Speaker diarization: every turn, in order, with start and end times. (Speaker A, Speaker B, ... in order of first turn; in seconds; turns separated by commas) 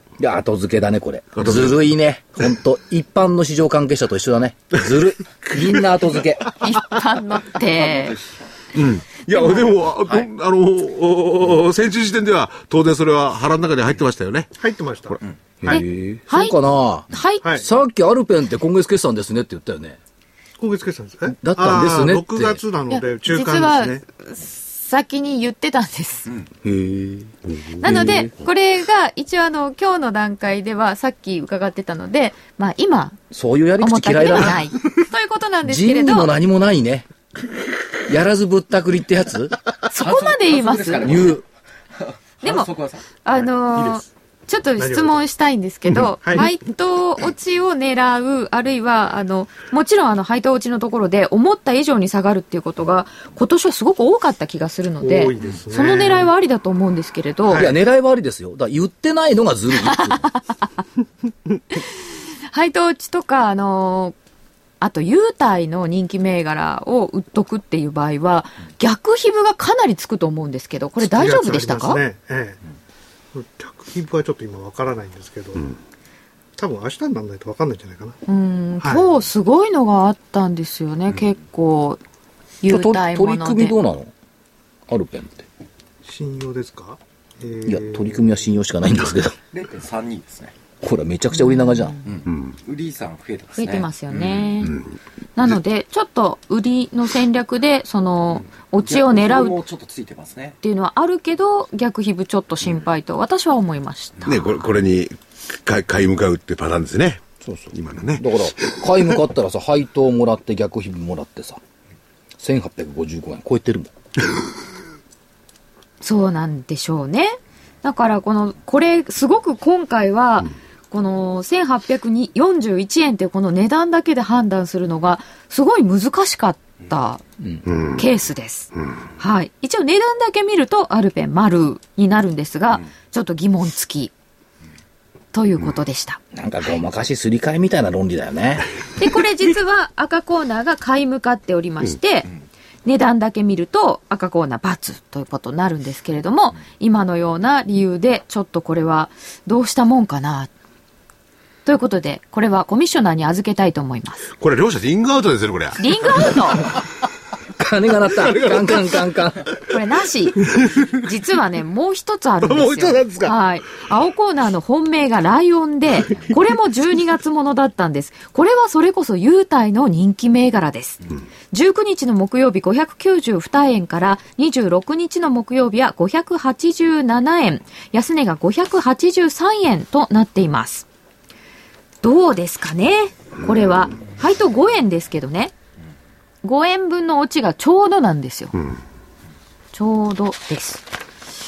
Speaker A: 0.2-6.6, Speaker B: 1.4-1.8, Speaker C: 6.6-8.2, Speaker D: 7.8-8.2, Speaker B: 8.7-14.5, Speaker E: 14.6-15.8, Speaker A: 15.6-20.0, Speaker C: 15.7-16.6, Speaker C: 17.1-17.4, Speaker E: 20.6-24.0, Speaker A: 21.2-22.6, Speaker C: 22.9-26.3, Speaker A: 26.6-28.3, Speaker B: 27.5-28.2, Speaker C: 27.8-33.2, Speaker A: 33.3-34.6, Speaker C: 33.8-36.3, Speaker A: 35.6-37.1, Speaker A: 38.1-39.6, Speaker C: 39.9-41.3, Speaker D: 40.0-41.4, Speaker A: 41.0-41.4, Speaker D: 42.0-43.0, Speaker C: 42.4-42.7, Speaker C: 43.2-57.7, Speaker E: 43.7-44.0, Speaker E: 44.8-45.2, Speaker E: 46.2-46.5, Speaker E: 55.0-56.3, Speaker E: 57.5-57.7, Speaker A: 57.5-60.3, Speaker C: 59.8-60.6, Speaker C: 62.5-64.1, Speaker C: 64.8-72.0, Speaker E: 71.0-72.6, Speaker E: 73.3-75.7, Speaker E: 76.6-78.2, Speaker C: 78.2-82.0, Speaker E: 78.8-79.0, Speaker C: 82.6-83.8, Speaker A: 82.7-84.1, Speaker A: 84.9-85.5, Speaker E: 86.0-88.4, Speaker A: 87.6-89.4, Speaker D: 89.5-90.5, Speaker A: 90.8-92.0, Speaker C: 91.3-92.0, Speaker D: 92.0-93.9, Speaker B: 92.3-92.5, Speaker C: 93.5-94.8, Speaker B: 94.6-94.9, Speaker C: 95.3-99.6, Speaker D: 98.8-100.6, Speaker C: 100.6-104.4, Speaker B: 104.2-108.8, Speaker A: 107.4-111.6, Speaker A: 112.4-113.9, Speaker C: 116.0-127.2, Speaker B: 127.7-128.0, Speaker C: 128.0-134.1, Speaker C: 135.3-136.2, Speaker A: 136.3-138.7, Speaker C: 139.0-142.3, Speaker C: 142.8-150.5, Speaker C: 151.6-154.2, Speaker B: 154.4-156.4, Speaker C: 155.8-156.7, Speaker A: 157.6-159.5, Speaker B: 158.2-159.0, Speaker C: 159.7-180.8, Speaker B: 160.6-160.9, Speaker B: 162.4-163.3, Speaker C: 182.0-185.5, Speaker C: 186.4-188.5, Speaker C: 189.7-190.8